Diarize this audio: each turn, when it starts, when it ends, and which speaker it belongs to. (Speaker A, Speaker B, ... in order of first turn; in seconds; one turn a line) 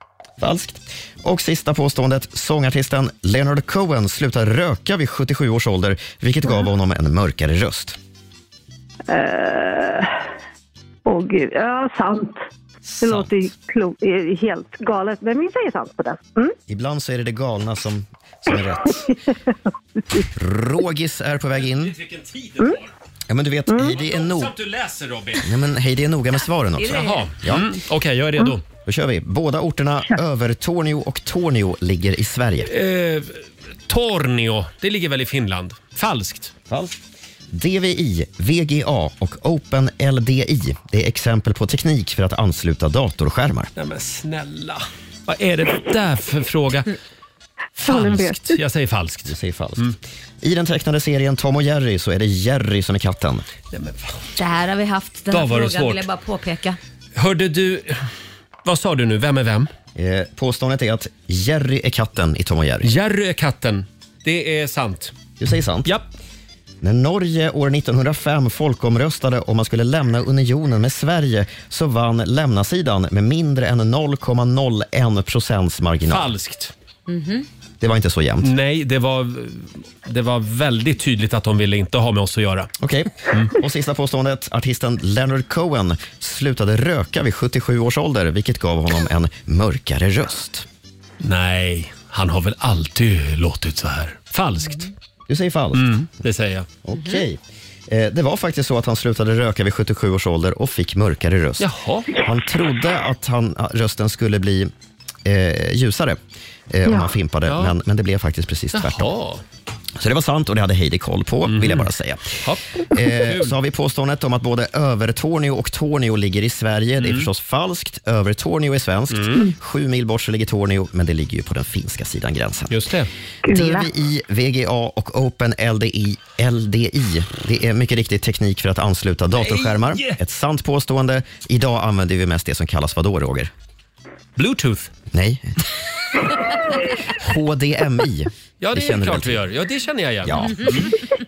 Speaker A: 0.4-8.0
Speaker B: 9.1-10.1
Speaker B: 11.1-12.5
Speaker B: 13.0-16.6
Speaker A: 16.7-19.1
Speaker A: 20.3-21.9
Speaker C: 21.6-22.9
Speaker A: 23.3-24.5
Speaker B: 23.7-23.9
Speaker C: 23.8-25.5
Speaker A: 25.4-27.7
Speaker C: 26.9-28.6
Speaker A: 28.9-32.7
Speaker C: 32.7-36.5
Speaker A: 36.7-37.0
Speaker A: 37.5-43.7
Speaker C: 43.8-47.0
Speaker C: 47.8-50.0
Speaker B: 47.8-48.6
Speaker A: 49.3-53.5
Speaker C: 53.7-54.2
Speaker D: 54.4-56.8
Speaker C: 55.3-56.1
Speaker C: 57.2-58.1
Speaker C: 58.6-59.7
Speaker A: 60.0-62.9
Speaker C: 62.8-65.2
Speaker A: 65.4-65.9
Speaker A: 66.8-76.3
Speaker C: 76.1-76.7
Speaker D: 77.1-77.5
Speaker A: 77.8-78.5
Speaker C: 78.4-82.7
Speaker A: 82.8-90.7
Speaker C: 91.2-94.9
Speaker A: 95.3-96.0
Speaker C: 95.7-96.7
Speaker A: 96.8-104.7
Speaker C: 101.6-102.1
Speaker A: 105.2-106.2
Speaker A: 106.7-109.1
Speaker B: 106.9-107.1
Speaker C: 107.5-107.8
Speaker C: 108.7-109.4
Speaker A: 110.0-122.9
Speaker C: 111.5-111.9
Speaker C: 113.2-113.5
Speaker C: 117.0-117.3
Speaker C: 119.1-119.5
Speaker C: 122.7-123.1
Speaker B: 123.5-123.9
Speaker A: 123.5-133.5
Speaker C: 129.4-130.2
Speaker C: 134.4-134.9
Speaker A: 135.1-135.6
Speaker A: 137.2-139.5
Speaker C: 138.6-140.9
Speaker A: 140.2-140.9